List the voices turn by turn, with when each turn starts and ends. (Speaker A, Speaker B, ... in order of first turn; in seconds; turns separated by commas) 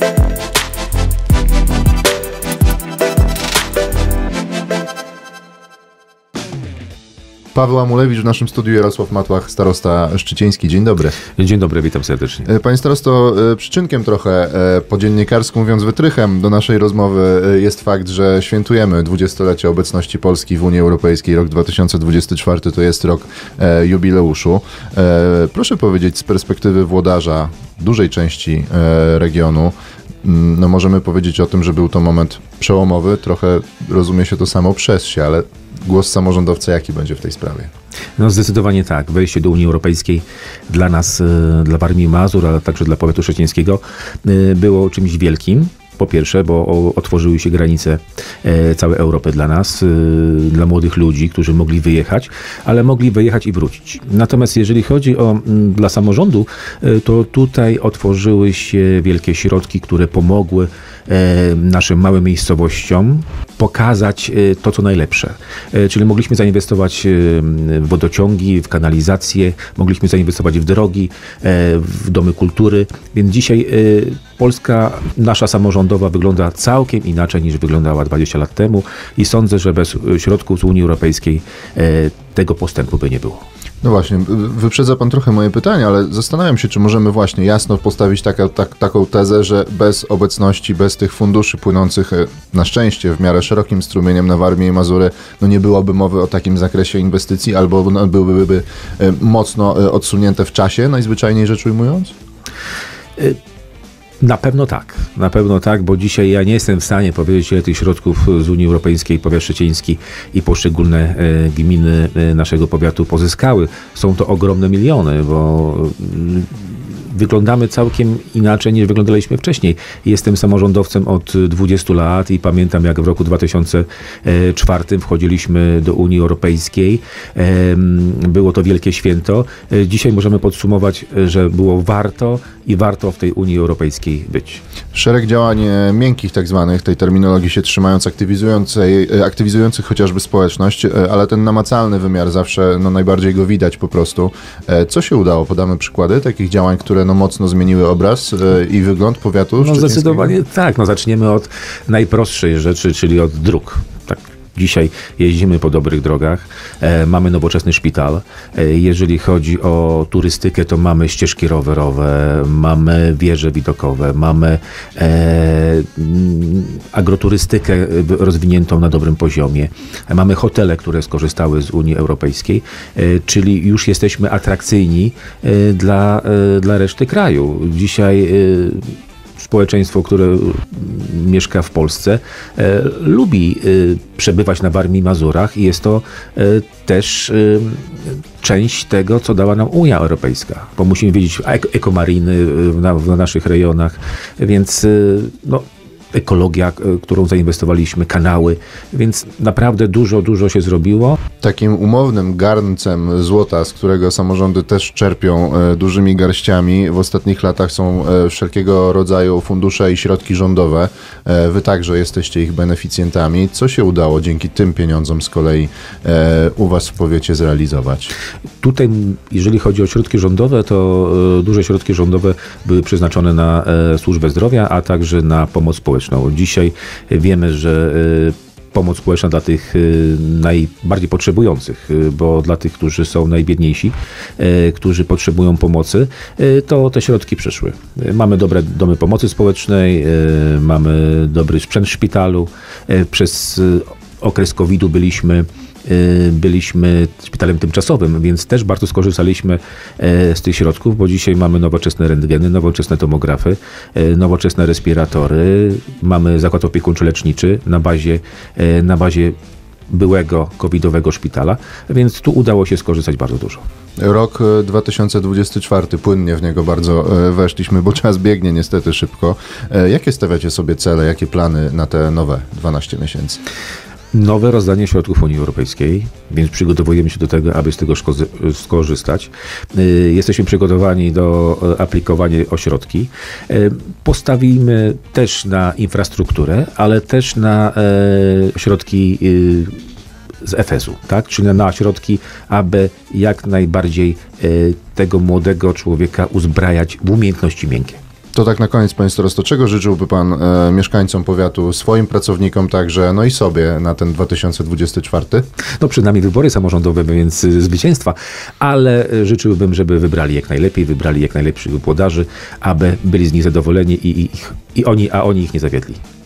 Speaker A: 7.5-11.2, Speaker B: 11.3-12.5, Speaker A: 12.4-37.7, Speaker B: 38.2-83.4, Speaker A: 83.8-102.1, Speaker B: 104.2-134.6, Speaker A: 134.9-150.3, Speaker B: 149.6-201.2, Speaker A: 201.4-218.1, Speaker B: 218.6-259.4, Speaker B: 259.9-263.6, Speaker A: 264.0-273.4, Speaker B: 274.1-289.8, Speaker B: 290.4-298.0, Speaker A: 298.3-305.5, Speaker B: 305.8-316.0